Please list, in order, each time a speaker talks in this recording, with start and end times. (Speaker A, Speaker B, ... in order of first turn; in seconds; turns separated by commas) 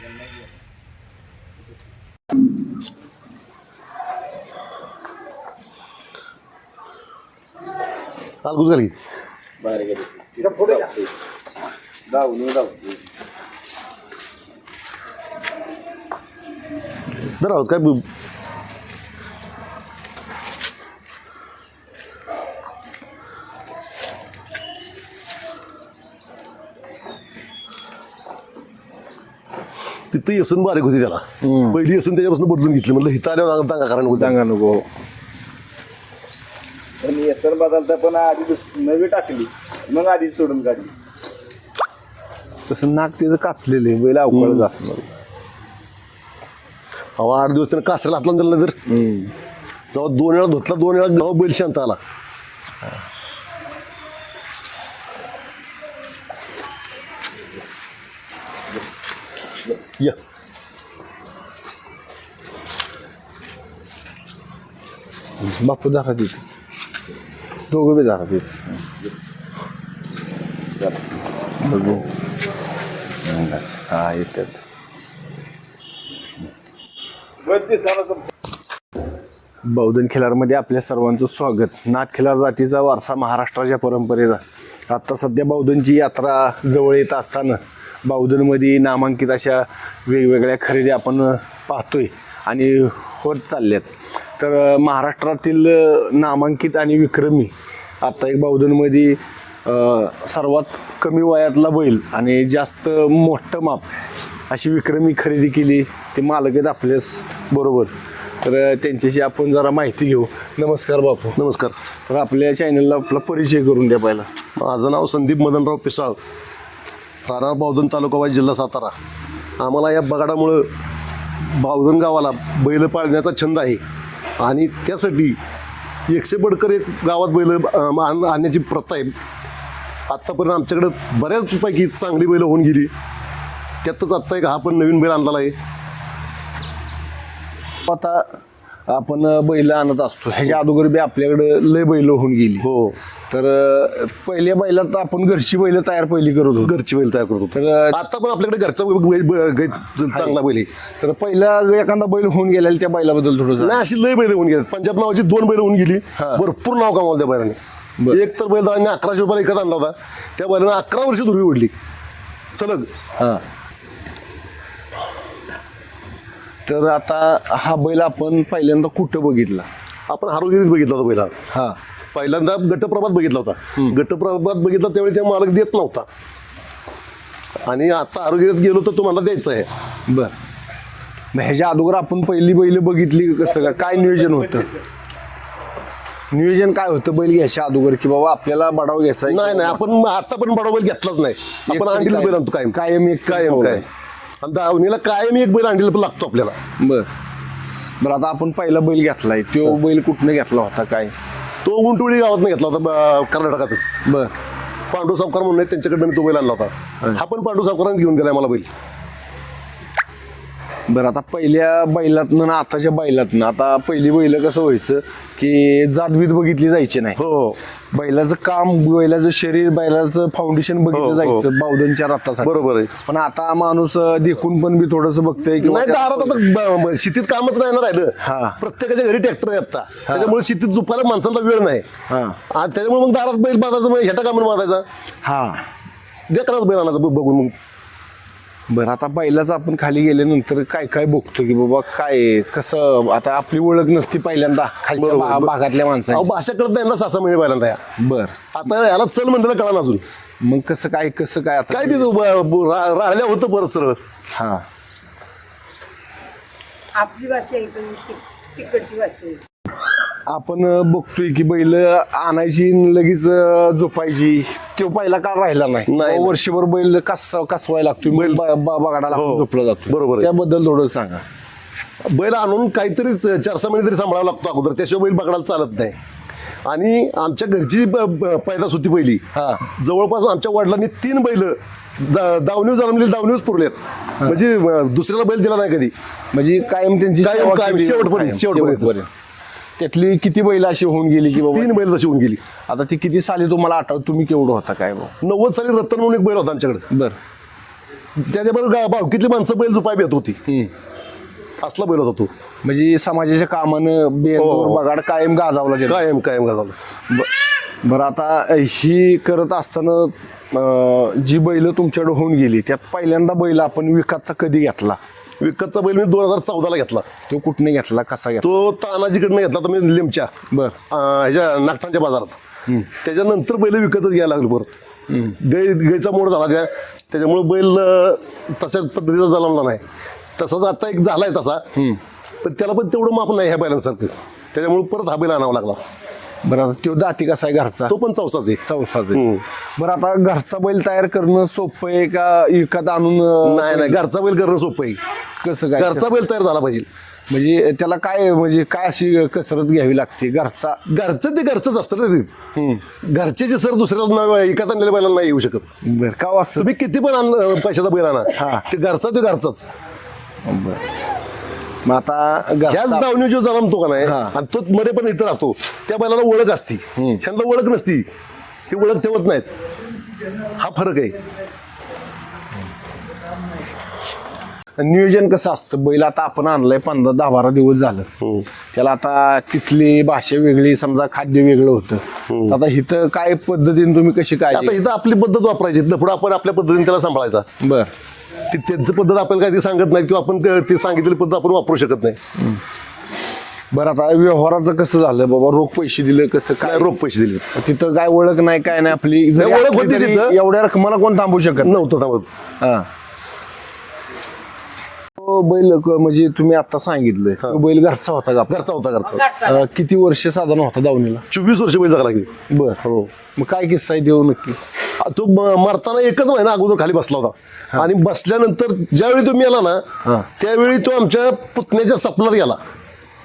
Speaker A: 8.4-8.9, Speaker B: 9.6-11.1, Speaker B: 12.1-13.0, Speaker A: 17.4-18.0, Speaker A: 30.1-34.4, Speaker C: 31.4-31.8, Speaker C: 34.1-34.9, Speaker B: 37.0-40.9, Speaker C: 42.7-45.1, Speaker A: 44.3-44.7, Speaker A: 47.2-48.8, Speaker C: 48.9-49.3, Speaker A: 49.9-52.0, Speaker C: 65.4-66.5, Speaker C: 67.7-68.8, Speaker C: 71.6-72.1, Speaker C: 73.2-74.6, Speaker B: 77.4-78.2, Speaker C: 79.6-103.9, Speaker C: 104.5-111.4, Speaker A: 111.4-111.7, Speaker C: 112.1-114.3, Speaker A: 114.6-116.2, Speaker A: 117.2-118.9, Speaker A: 119.6-120.7, Speaker A: 121.4-123.8, Speaker A: 124.4-125.4, Speaker A: 126.1-129.1, Speaker A: 130.1-132.9, Speaker A: 133.8-135.5, Speaker C: 137.8-142.7, Speaker A: 142.6-143.0, Speaker C: 143.3-146.8, Speaker A: 146.6-150.7, Speaker C: 147.5-148.0, Speaker C: 150.1-150.4, Speaker C: 151.0-153.8, Speaker A: 153.6-157.6, Speaker C: 156.2-156.4, Speaker A: 158.1-161.7, Speaker A: 162.5-162.9, Speaker C: 163.2-163.4, Speaker C: 166.7-169.7, Speaker A: 170.1-171.3, Speaker C: 171.5-171.8, Speaker A: 172.1-176.1, Speaker A: 177.6-179.7, Speaker C: 180.1-180.3, Speaker C: 181.3-184.8, Speaker C: 186.3-189.8, Speaker A: 189.3-193.8, Speaker C: 191.7-193.8, Speaker A: 194.4-196.6, Speaker C: 196.8-197.1, Speaker C: 198.0-201.1, Speaker A: 201.6-203.9, Speaker C: 204.0-204.3, Speaker A: 204.9-208.7, Speaker C: 210.9-217.2, Speaker A: 217.2-217.6, Speaker C: 217.9-226.4, Speaker A: 220.9-221.5, Speaker A: 222.4-222.9, Speaker A: 225.6-231.8, Speaker C: 228.2-228.6, Speaker C: 230.1-230.3, Speaker C: 232.1-232.4, Speaker A: 232.5-234.8, Speaker C: 235.2-235.6, Speaker A: 236.3-237.5, Speaker C: 238.7-246.3, Speaker A: 244.9-245.5, Speaker A: 246.1-247.8, Speaker C: 248.0-248.4, Speaker A: 248.5-250.0, Speaker C: 250.4-252.1, Speaker A: 251.7-254.0, Speaker C: 254.3-254.6, Speaker D: 256.9-259.4, Speaker C: 260.2-271.2, Speaker A: 265.9-266.4, Speaker A: 268.1-268.4, Speaker A: 269.1-270.3, Speaker A: 272.0-275.9, Speaker A: 276.6-285.9, Speaker C: 279.3-279.6, Speaker C: 286.3-289.1, Speaker A: 287.2-289.0, Speaker C: 289.8-291.8, Speaker A: 291.4-292.4, Speaker C: 292.7-295.1, Speaker A: 295.2-296.8, Speaker C: 296.9-297.2, Speaker A: 298.2-300.4, Speaker C: 300.5-300.7, Speaker A: 301.6-302.3, Speaker C: 302.6-306.0, Speaker A: 304.4-304.8, Speaker A: 305.8-306.7, Speaker C: 307.1-315.0, Speaker A: 315.4-317.1, Speaker C: 317.3-318.6, Speaker A: 318.4-320.3, Speaker C: 320.5-320.8, Speaker A: 320.9-322.4, Speaker A: 322.9-324.7, Speaker C: 325.1-325.4, Speaker A: 325.3-329.8, Speaker A: 330.4-331.6, Speaker C: 331.7-332.0, Speaker A: 332.4-335.8, Speaker C: 336.4-337.9, Speaker A: 337.9-338.6, Speaker C: 338.6-339.2, Speaker A: 339.1-339.4, Speaker C: 339.8-344.0, Speaker A: 343.4-345.0, Speaker C: 345.4-346.1, Speaker A: 345.8-346.9, Speaker C: 347.3-350.8, Speaker A: 350.9-352.3, Speaker C: 352.5-352.9, Speaker A: 353.0-355.7, Speaker C: 355.8-356.7, Speaker A: 356.6-359.7, Speaker C: 358.3-358.7, Speaker C: 360.4-360.8, Speaker C: 361.8-363.1, Speaker A: 362.6-368.1, Speaker C: 364.0-364.4, Speaker C: 366.9-367.2, Speaker A: 368.7-369.5, Speaker A: 370.3-371.2, Speaker C: 374.8-378.1, Speaker A: 378.2-378.4, Speaker C: 378.7-384.8, Speaker A: 382.3-382.6, Speaker A: 384.5-387.4, Speaker C: 387.6-387.9, Speaker A: 388.5-392.2, Speaker C: 392.4-392.6, Speaker C: 393.7-396.9, Speaker A: 396.6-397.5, Speaker C: 397.5-401.8, Speaker A: 399.4-400.4, Speaker A: 401.6-402.3, Speaker C: 402.6-402.9, Speaker C: 405.1-408.6, Speaker A: 408.5-409.4, Speaker C: 409.3-411.2, Speaker A: 411.3-412.3, Speaker C: 412.5-412.8, Speaker A: 412.8-413.1, Speaker C: 413.3-414.6, Speaker A: 415.0-419.8, Speaker C: 420.0-420.3, Speaker A: 420.4-422.6